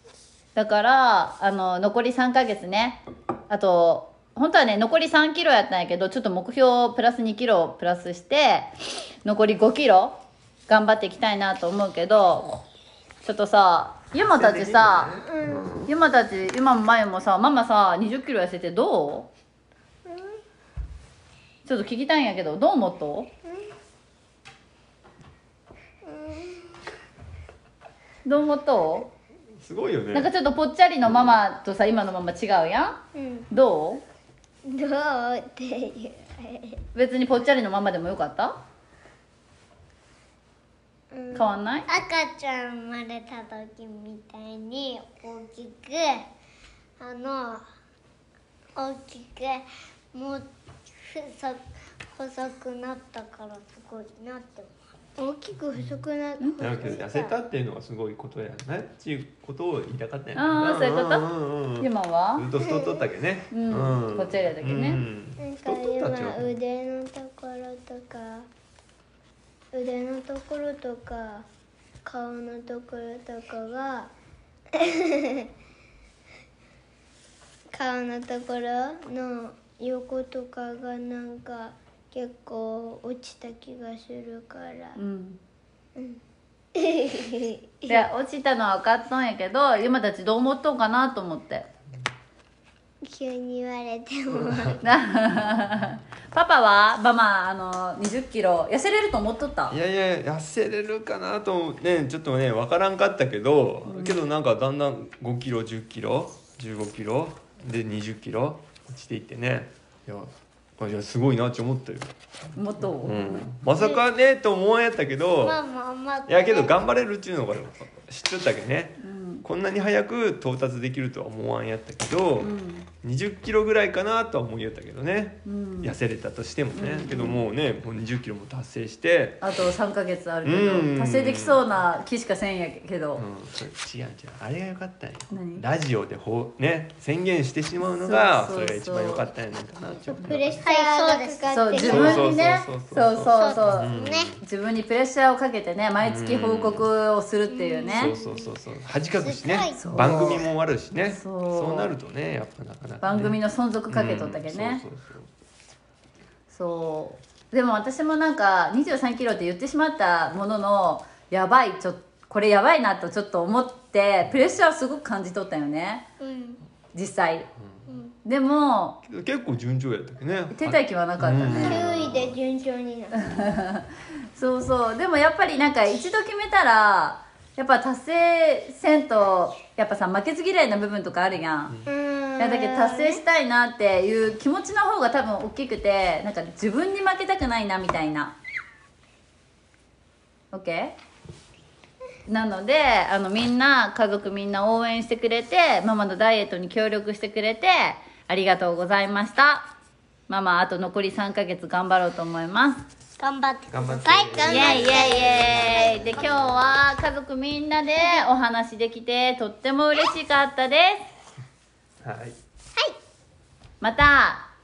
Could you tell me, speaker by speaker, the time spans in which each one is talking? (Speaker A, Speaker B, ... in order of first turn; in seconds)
Speaker A: 0.5-8.7, 9.2-12.6, 13.2-15.2, 15.8-19.3, 21.6-23.3, 28.2-29.1, 30.1-34.0, 36.9-38.6, 41.3-41.9, 56.4-56.9, 60.3-62.5, 63.5-65.0, 85.0-85.4, 87.9-91.7, 94.8-99.8, 103.8-104.2, 112.5-113.5, 119.0-119.5, 122.4-122.9, 125.4-126.0, 126.7-127.4, 129.4-133.2, 135.3-135.6, 138.0-139.2, 141.5-148.2, 149.7-150.4, 151.1-151.9, 153.0-154.8, 156.5-166.1, 166.9-167.5, 168.2-169.0, 170.5-171.9, 173.1-181.7, 182.4-188.4, 190.5-190.9, 192.2-199.7, 200.3-202.8, 204.4-211.1, 213.8-214.5
Speaker B: 14.3-15.9, 29.6-30.3, 31.0-31.4, 56.6-66.6, 94.3-96.0, 99.7-112.2, 112.8-115.6, 116.3-129.4, 130.4-131.6, 133.2-140.7, 141.8-144.4, 146.0-146.9, 147.9-155.3, 164.3-164.5, 169.0-172.4, 203.7-206.8, 212.0-212.4
Speaker C: 15.3-15.7, 20.1-20.4, 26.0-26.8, 33.1-33.5, 34.6-36.8, 41.1-46.3, 47.0-47.6, 48.7-51.6, 52.1-57.3, 62.6-63.1, 65.4-68.5, 69.7-71.5, 72.0-74.1, 74.7-75.5, 77.7-85.0, 85.9-86.2, 86.7-88.0, 93.0-94.8, 115.4-116.7, 140.1-142.5, 143.2-144.3, 147.5-148.5, 149.2-150.3, 166.2-166.6, 167.9-168.1, 171.5-173.4, 181.8-183.2, 203.7-206.2
Speaker D: 140.6-141.8, 203.2-204.7